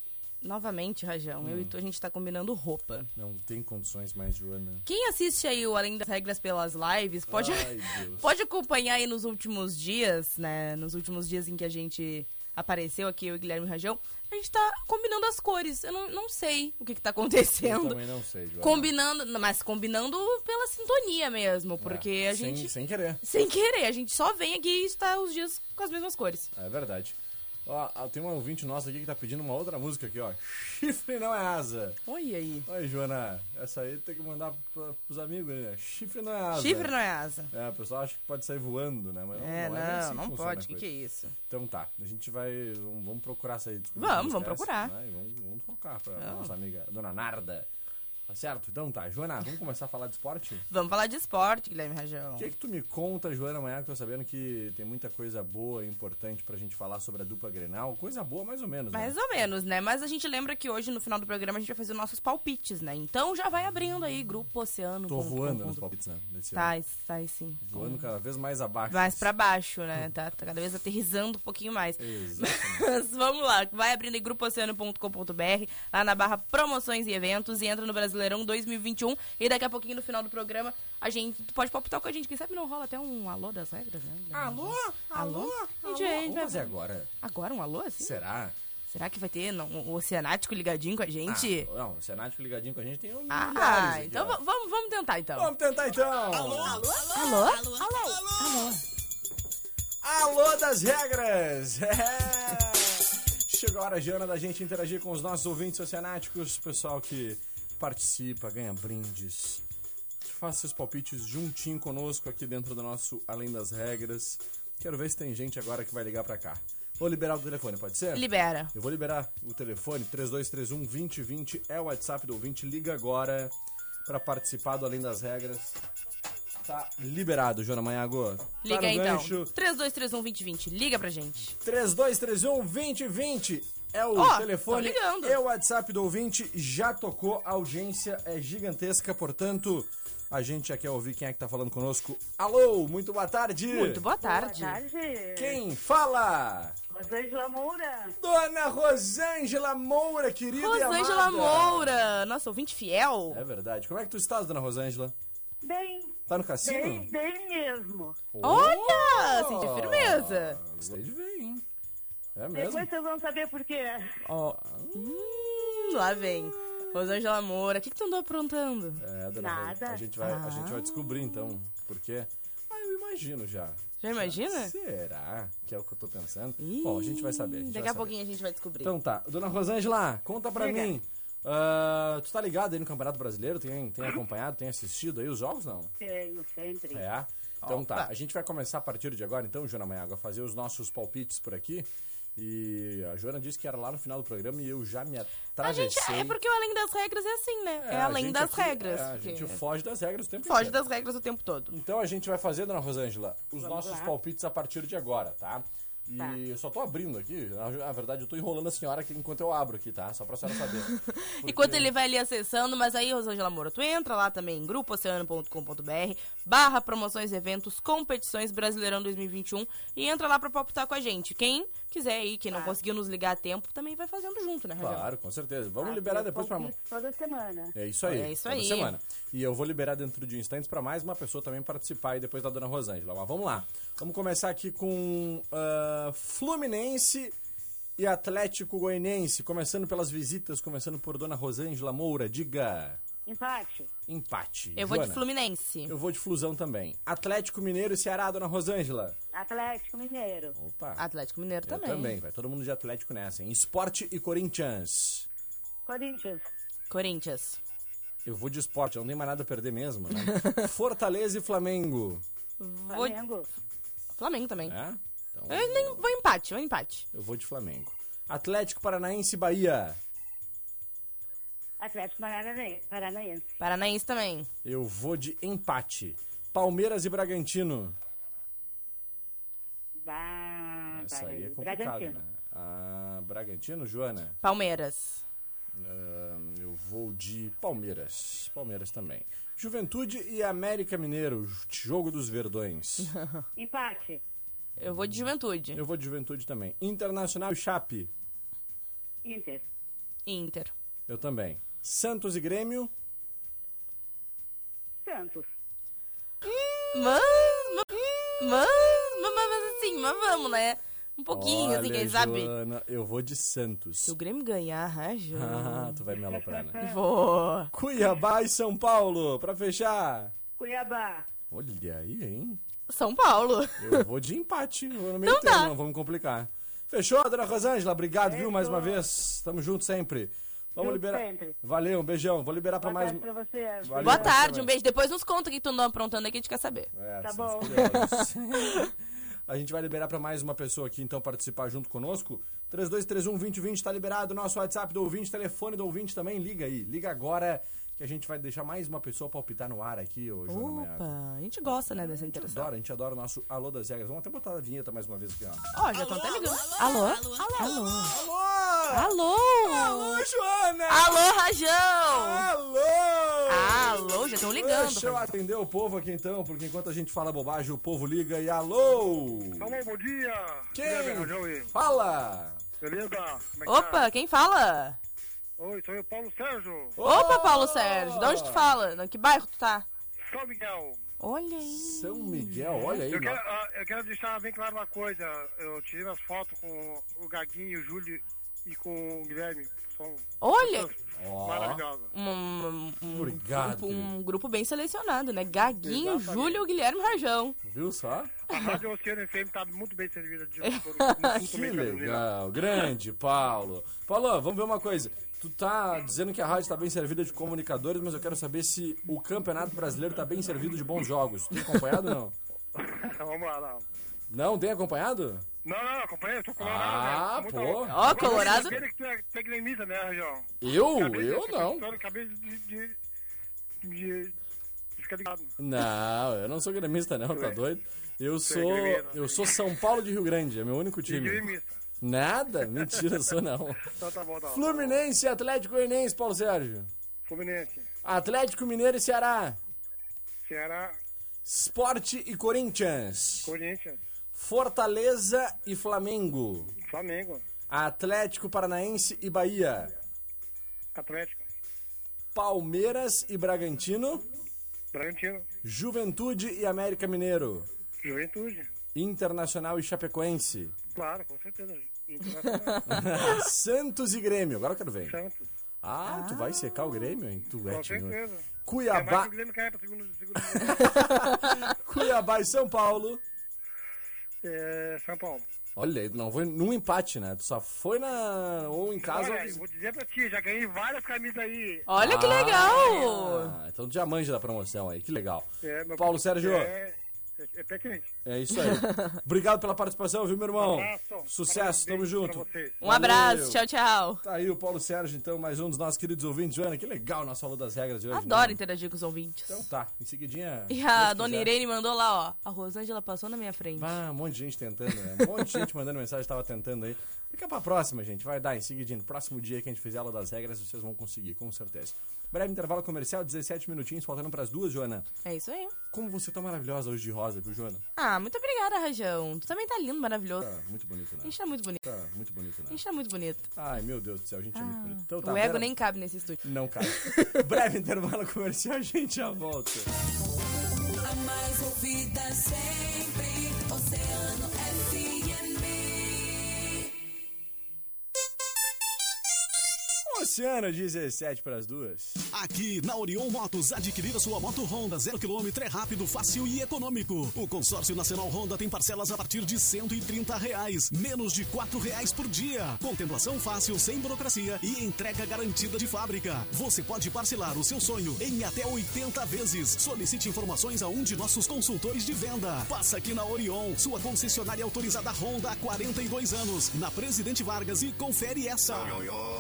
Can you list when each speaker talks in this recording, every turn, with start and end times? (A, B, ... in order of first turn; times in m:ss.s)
0:00.4-0:03.1 A
0:01.4-0:01.7 B
0:03.2-0:04.8 B
0:04.8-0:18.0 A
0:07.3-0:08.3 B
0:17.6-0:18.9 B
0:18.6-0:26.5 A
0:21.8-0:23.2 B
0:26.5-0:32.0 B
0:32.1-0:32.7 A
0:32.7-0:36.9 B
0:36.5-0:37.5 A
0:37.5-0:40.9 B
0:39.4-0:41.3 A
0:41.5-0:47.7 B
0:44.0-0:44.9 A
0:46.2-0:46.5 A
0:48.3-0:50.6 B
0:50.7-0:52.5 A
0:52.4-0:59.2 B
0:58.9-1:05.9 A
1:05.1-1:06.7 B
1:06.5-1:08.1 A
1:07.6-1:09.3 B
1:08.9-1:28.2 A
1:12.0-1:12.9 B
1:24.3-1:27.1 B
1:28.0-1:28.6 B
1:28.9-1:31.7 A
1:31.3-1:34.4 B
1:33.3-1:35.5 A
1:35.4-1:36.9 B
1:37.1-1:38.8 A
1:40.0-1:49.6 B
1:50.2-2:03.5 B
1:58.1-1:58.7 A
2:04.1-2:05.8 B
2:06.6-2:09.5 B
2:08.6-2:11.6 A
2:11.6-2:24.0 B
2:14.1-2:15.4 A
2:23.7-2:24.8 A
2:24.2-2:25.6 C
2:25.4-2:26.8 B
2:26.9-2:28.1 C
2:28.2-2:32.0 B
2:30.5-2:33.4 A
2:33.3-2:35.1 B
2:35.6-2:38.2 C
2:36.3-2:37.1 B
2:38.3-2:41.6 B
2:38.4-2:40.6 A
2:42.4-2:42.9 B
2:42.5-2:44.1 C
2:44.2-2:49.0 A
2:44.5-2:45.3 B
2:49.0-2:58.2 B
2:49.4-2:50.0 C
2:50.2-2:51.5 A
2:54.0-2:54.7 A
2:56.6-2:58.9 A
2:58.8-3:05.9 B
3:00.6-3:00.9 C
3:06.0-3:07.0 C
3:06.9-3:16.4 B
3:07.6-3:08.1 A
3:15.6-3:19.6 A
3:17.8-3:20.8 B
3:20.4-3:21.8 A
3:21.7-3:31.9 B
3:23.6-3:24.1 C
3:30.6-3:45.1 A
3:42.5-3:42.8 C
3:44.8-3:46.8 B
3:45.8-3:47.8 C
3:47.7-3:57.3 B
3:48.1-3:48.9 A
3:58.0-4:03.0 B
4:03.3-4:03.9 C
4:04.1-4:05.3 B
4:04.8-4:05.9 A
4:05.8-4:09.2 B
4:09.3-4:10.6 C
4:10.5-4:11.0 B
4:11.0-4:12.2 A
4:11.6-4:15.3 B
4:15.8-4:16.4 C
4:16.9-4:17.6 A
4:18.2-4:22.2 B
4:20.3-4:20.6 A
4:22.6-4:23.2 A
4:22.9-4:23.5 C
4:24.2-4:24.8 A
4:24.6-4:26.1 B
4:25.5-4:27.0 A
4:27.1-4:30.0 B
4:31.8-4:33.5 C
4:33.6-4:34.5 A
4:34.6-4:38.0 B
4:40.0-4:42.2 C
4:40.9-4:44.4 B
4:44.4-4:45.2 A
4:45.8-4:53.1 B
4:53.1-4:53.4 A
4:53.6-4:54.2 C
4:54.8-4:55.8 A
4:54.8-4:58.1 B
4:59.2-4:59.7 C
5:00.2-5:00.7 A
5:01.1-5:02.9 B
5:05.0-5:05.5 C
5:06.9-5:12.5 A
5:11.3-5:14.2 B
5:14.0-5:16.0 A
5:15.3-5:16.8 B
5:16.3-5:17.0 C
5:16.8-5:17.7 A
5:17.7-5:20.3 B
5:20.6-5:21.3 C
5:21.5-5:22.6 B
5:22.9-5:24.0 A
5:23.8-5:33.3 B
5:25.2-5:25.7 A
5:28.3-5:29.0 C
5:30.8-5:31.6 C
5:32.8-5:34.4 C
5:33.8-5:34.7 B
5:34.0-5:36.9 A
5:36.9-5:38.9 B
5:37.2-5:37.9 C
5:37.8-5:38.2 A
5:39.5-5:51.1 B
5:50.5-5:52.7 A
5:51.7-5:55.7 B
5:55.7-5:58.2 A
5:58.1-6:01.3 B
5:58.9-6:00.3 A
6:00.9-6:02.5 A
6:02.1-6:09.7 B
6:03.5-6:05.3 A
6:09.6-6:11.7 D
6:10.7-6:12.6 B
6:12.8-6:14.1 D
6:13.7-6:15.0 A
6:15.6-6:17.0 D
6:17.0-6:18.7 B
6:17.0-6:19.8 A
6:20.3-6:21.0 D
6:21.2-6:22.9 A
6:21.7-6:23.4 B
6:23.0-6:32.1 D
6:30.4-6:30.9 A
6:31.2-6:31.8 B
6:32.1-6:37.6 A
6:33.1-6:34.1 B
6:35.8-6:36.6 D
6:37.6-6:38.3 B
6:38.5-6:42.3 D
6:38.5-6:38.8 A
6:40.6-6:41.5 A
6:41.3-6:52.4 B
6:52.8-6:53.8 D
6:54.3-6:55.4 B
6:55.6-7:03.0 D
6:56.6-6:58.8 B
6:57.8-6:58.8 A
7:00.6-7:01.9 B
7:03.8-7:04.3 D
7:05.0-7:05.5 D
7:05.6-7:11.5 B
7:08.4-7:09.6 D
7:11.1-7:11.8 D
7:12.0-7:13.9 B
7:14.0-7:15.0 D
7:14.5-7:16.9 B
7:17.3-7:17.8 D
7:18.0-7:19.6 B
7:20.4-7:21.0 D
7:21.4-7:23.5 B
7:23.4-7:24.0 D
7:24.3-7:26.7 B
7:26.8-7:27.4 D
7:27.7-7:29.9 B
7:30.9-7:31.4 D
7:32.3-7:34.2 B
7:34.9-7:35.4 D
7:35.6-7:37.7 B
7:38.0-7:38.7 D
7:38.9-7:40.8 B
7:40.9-7:43.1 D
7:42.9-7:45.2 B
7:45.0-7:45.5 D
7:45.8-7:49.3 B
7:46.0-7:47.1 A
7:47.7-7:50.8 D
7:50.4-7:53.2 B
7:54.4-7:55.4 D
7:55.8-7:59.6 B
7:59.0-8:01.9 D
8:01.9-8:03.6 A
8:02.0-8:06.7 B
8:02.7-8:03.0 D
8:05.6-8:08.1 D
8:08.2-8:13.7 B
8:08.6-8:09.2 A
8:10.6-8:12.8 D
8:12.8-8:14.2 A
8:14.2-8:18.6 B
8:18.1-8:19.6 A
8:19.5-8:21.5 B
8:20.7-8:24.0 A
8:23.8-8:35.1 B
8:35.2-8:35.7 A
8:35.9-8:37.8 B
8:38.0-8:40.5 A
8:40.4-8:42.8 B
8:41.2-8:41.8 A
8:42.7-8:43.4 A
8:43.6-8:45.9 B
8:44.5-8:47.2 A
8:46.4-8:49.9 B
8:51.0-8:55.9 E
9:00.1-9:02.2 B
9:02.3-9:29.1 F